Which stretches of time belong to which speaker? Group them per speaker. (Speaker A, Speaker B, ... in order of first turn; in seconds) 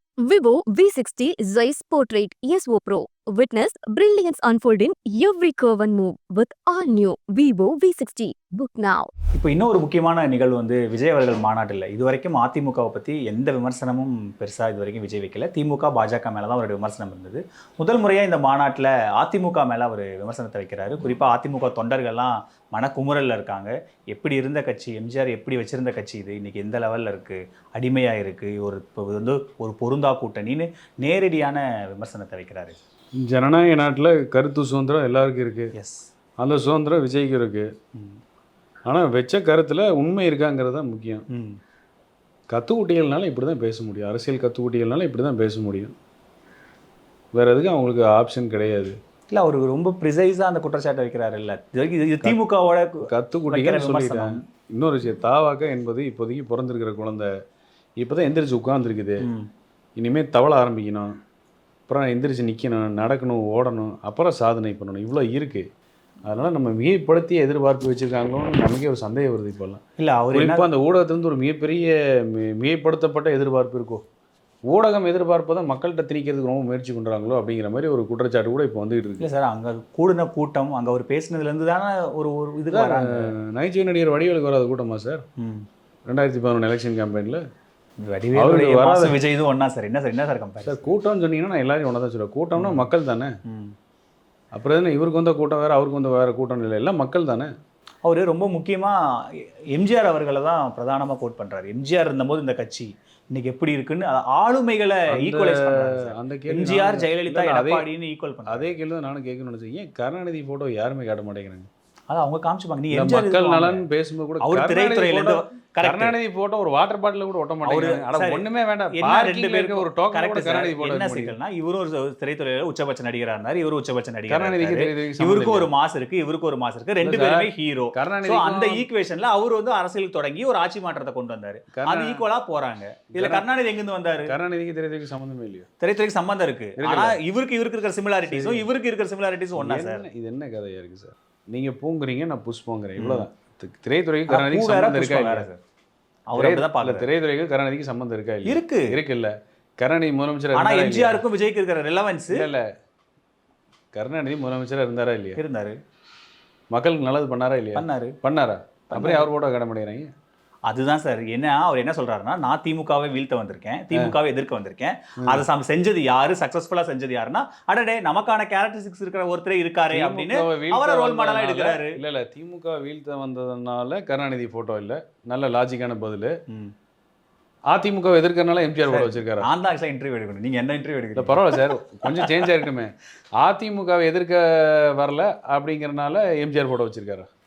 Speaker A: 0.3-9.1
Speaker B: 9.3-32.8, 35.8-36.1, 41.3-41.6, 49.3-54.4, 70.0-70.7, 79.2-83.3, 85.4-85.7, 88.0-90.9, 92.5-92.9, 93.5-93.7, 98.0-108.7, 112.1-113.8, 114.4-116.1, 117.6-134.3, 135.8-140.0, 143.0-143.2, 144.3-145.6, 146.3-147.1, 148.5-148.8, 150.5-152.4, 155.4-155.8, 157.8-158.1, 158.9-159.3, 160.7-171.9, 178.8-181.7
Speaker C: 33.2-35.7, 36.4-37.7, 38.9-41.2, 42.5-45.9, 47.3-49.0, 53.1-57.3, 58.0-59.2, 60.0-61.1, 61.9-65.7, 66.2-69.8, 70.3-74.0, 74.7-79.2, 82.7-85.2, 86.1-87.4, 88.3-89.2, 90.6-93.3, 94.5-97.5, 105.1-107.8, 108.5-111.7, 112.9-121.3, 124.3-125.7, 127.0-128.9, 131.7-132.2, 133.1-133.4, 134.3-135.7, 136.8-137.2, 138.2-138.7, 139.6-145.5, 146.3-151.2, 152.3-152.6, 153.9-155.4, 156.7-160.1, 169.9-176.3, 177.7-179.5, 181.2-187.3